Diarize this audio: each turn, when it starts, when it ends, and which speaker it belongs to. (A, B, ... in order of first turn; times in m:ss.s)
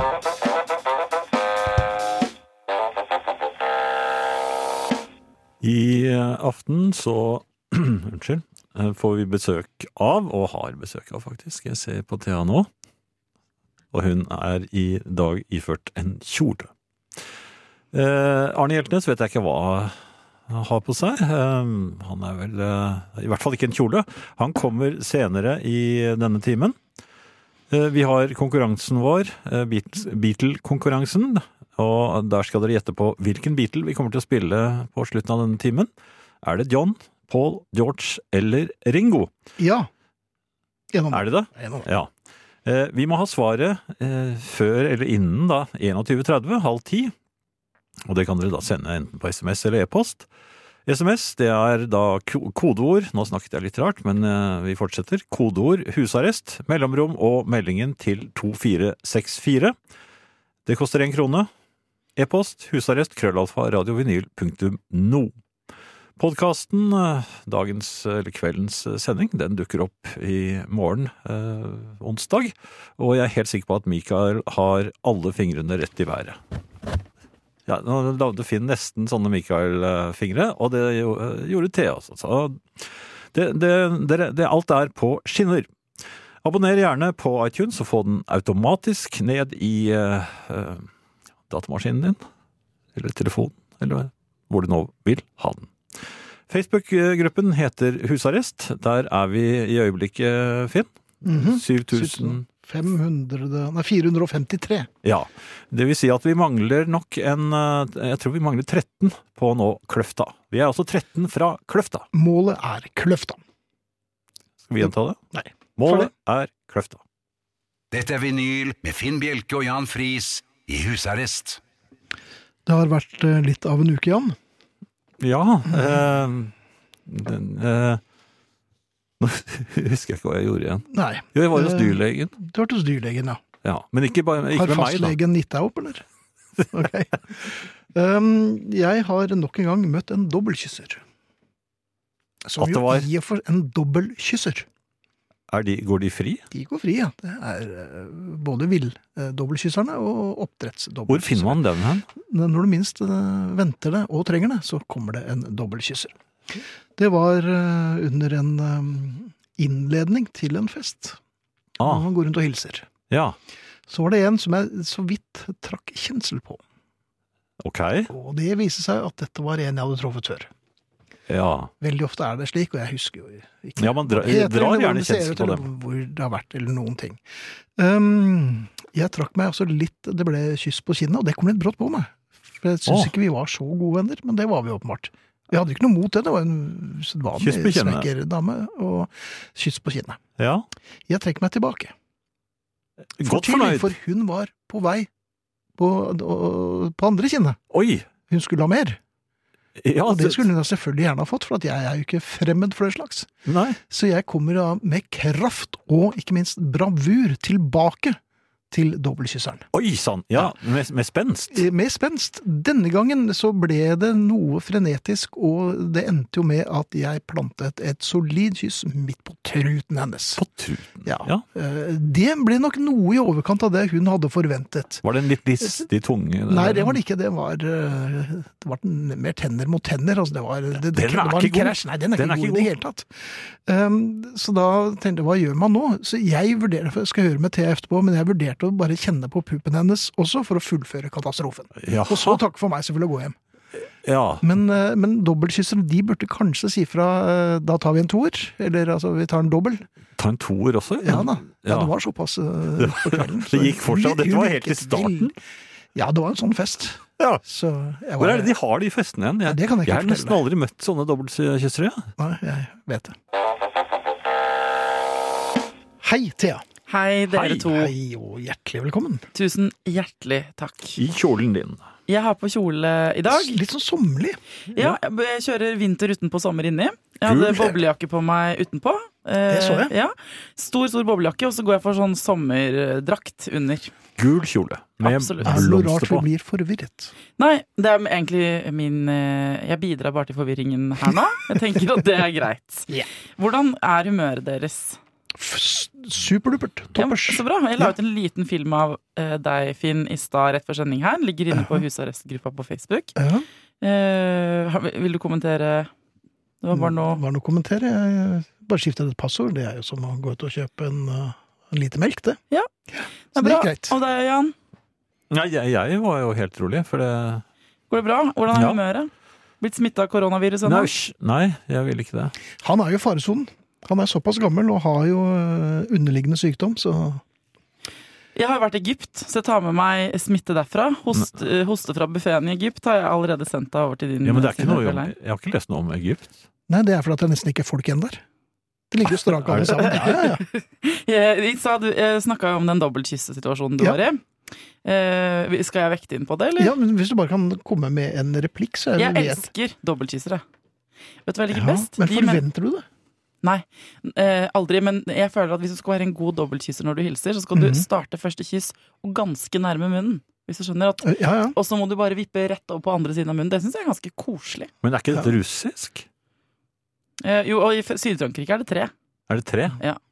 0:05.6-0:12.7 A
0:13.9-0:16.7 A
0:17.9-0:19.9 A
0:20.5-0:26.8 A
0:27.7-0:35.9 A
0:36.4-0:39.3 A
0:39.6-0:39.9 B
0:40.9-0:41.9 B
0:41.1-0:42.1 A
0:42.6-0:47.1 A
0:48.0-0:50.2 A
0:50.9-0:59.7 A
1:00.6-1:01.5 A
1:02.2-1:05.3 A
1:06.2-1:16.4 A
1:17.7-1:25.7 A
1:26.4-1:30.8 A
1:31.5-1:32.2 A
1:32.9-1:35.7 A
1:36.5-1:42.4 A
1:41.2-1:44.9 B
1:45.0-1:52.0 A
1:52.1-1:53.4 B
1:54.6-1:55.2 A
1:54.8-1:56.1 B
1:55.8-1:57.0 A
1:57.9-2:01.6 C
2:02.6-2:04.4 B
2:05.2-2:06.5 A
2:05.7-2:06.0 B
2:07.1-2:08.0 A
2:09.2-2:12.3 A
2:10.9-2:13.4 B
2:13.6-2:15.2 A
2:14.5-2:16.0 B
2:16.7-2:21.0 B
2:22.4-2:24.7 B
2:22.6-2:23.1 A
2:25.5-2:26.4 A
2:26.5-2:31.6 B
2:31.1-2:32.0 A
2:32.2-2:36.1 B
2:37.0-2:41.2 B
2:41.8-2:42.0 A
2:41.8-2:42.9 B
2:43.1-2:43.4 A
2:43.9-2:46.6 B
2:47.6-2:48.1 A
2:48.1-2:50.5 B
2:51.3-2:51.7 A
2:51.8-2:57.2 B
2:53.8-2:55.7 A
2:57.8-3:10.2 B
3:02.9-3:03.1 A
3:07.4-3:08.1 A
3:10.4-3:10.6 A
3:11.1-3:11.9 B
3:13.2-3:13.9 A
3:13.2-3:15.1 B
3:15.8-3:17.6 B
3:17.7-3:18.1 A
3:18.3-3:19.0 B
3:19.8-3:20.5 A
3:20.1-3:23.3 B
3:23.4-3:23.8 A
3:23.8-3:28.2 B
3:28.7-3:29.7 B
3:29.7-3:31.6 A
3:31.5-3:40.4 B
3:40.4-3:41.4 A
3:41.0-3:45.0 B
3:45.0-3:47.0 A
3:46.5-4:03.4 B
3:50.8-3:52.7 A
4:01.8-4:02.4 A
4:04.0-4:04.4 A
4:04.4-4:09.9 B
4:10.2-4:11.9 A
4:11.0-4:15.3 B
4:12.8-4:15.3 A
4:15.9-4:18.5 B
4:18.2-4:22.1 A
4:19.4-4:20.4 B
4:22.2-4:23.2 B
4:26.0-4:26.6 B
4:26.9-4:27.9 D
4:27.3-4:27.7 A
4:27.7-4:29.2 B
4:29.3-4:31.0 D
4:31.0-4:31.8 A
4:32.1-4:33.6 D
4:33.3-4:34.4 B
4:34.7-4:43.9 D
4:37.3-4:37.7 A
4:39.5-4:39.9 B
4:44.2-4:46.2 A
4:45.0-4:45.6 D
4:45.4-4:47.1 B
4:47.4-4:55.0 D
4:55.4-4:57.9 B
4:57.0-5:03.1 D
5:01.5-5:01.8 B
5:03.2-5:03.4 B
5:03.8-5:05.9 D
5:06.6-5:07.2 D
5:06.7-5:12.4 B
5:12.9-5:14.0 B
5:13.3-5:14.5 D
5:15.3-5:17.4 A
5:17.9-5:19.1 D
5:18.5-5:18.8 A
5:19.6-5:20.9 D
5:20.6-5:22.3 A
5:22.6-5:27.2 B
5:28.4-5:35.1 D
5:34.2-5:36.4 A
5:36.7-5:38.2 B
5:38.9-5:40.4 B
5:39.4-5:39.8 A
5:39.7-5:44.2 D
5:44.8-5:46.7 D
5:46.6-5:49.4 B
5:49.0-5:50.4 D
5:51.2-5:52.4 D
5:51.5-5:52.8 B
5:53.4-6:04.7 D
5:57.5-5:57.8 B
6:01.0-6:01.6 B
6:04.8-6:06.0 A
6:07.2-6:08.9 D
6:09.3-6:09.8 A